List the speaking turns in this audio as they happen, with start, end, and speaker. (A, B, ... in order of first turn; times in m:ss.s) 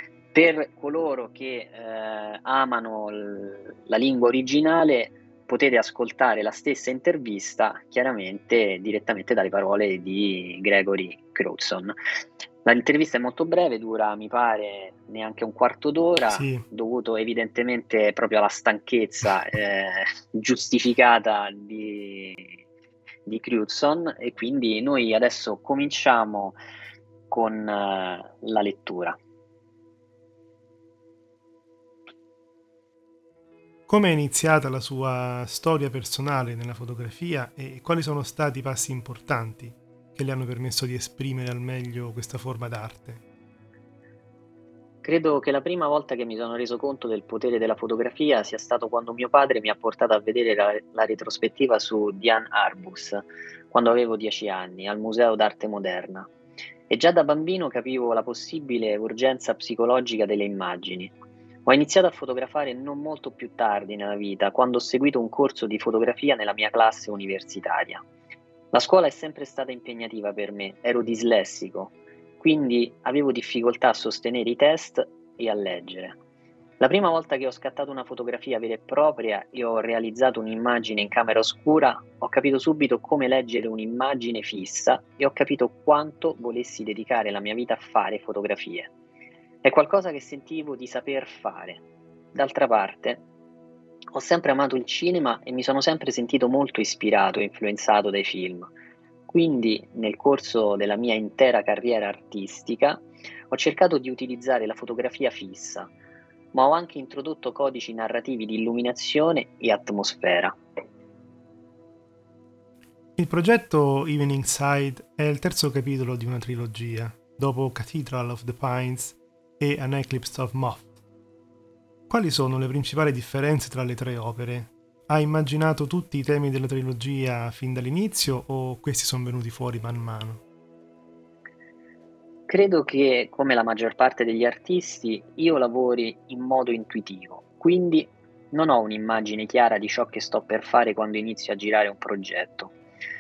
0:00.3-0:12.0 A
0:12.6-0:22.6 A
0:16.3-0:16.6 B
0:23.3-0:26.6 A
0:27.3-0:29.2 A
0:33.9-0:43.2 B
0:45.0-0:56.3 A
0:56.9-1:01.1 A
1:01.7-1:08.0 A
1:08.7-1:16.2 A
1:16.8-1:28.9 A
1:29.6-1:31.8 A
1:32.3-1:33.2 A
1:34.1-1:38.7 A
1:39.3-1:45.9 A
1:46.5-1:50.6 A
1:53.2-2:00.9 B
2:02.1-2:10.4 B
2:12.5-2:22.7 A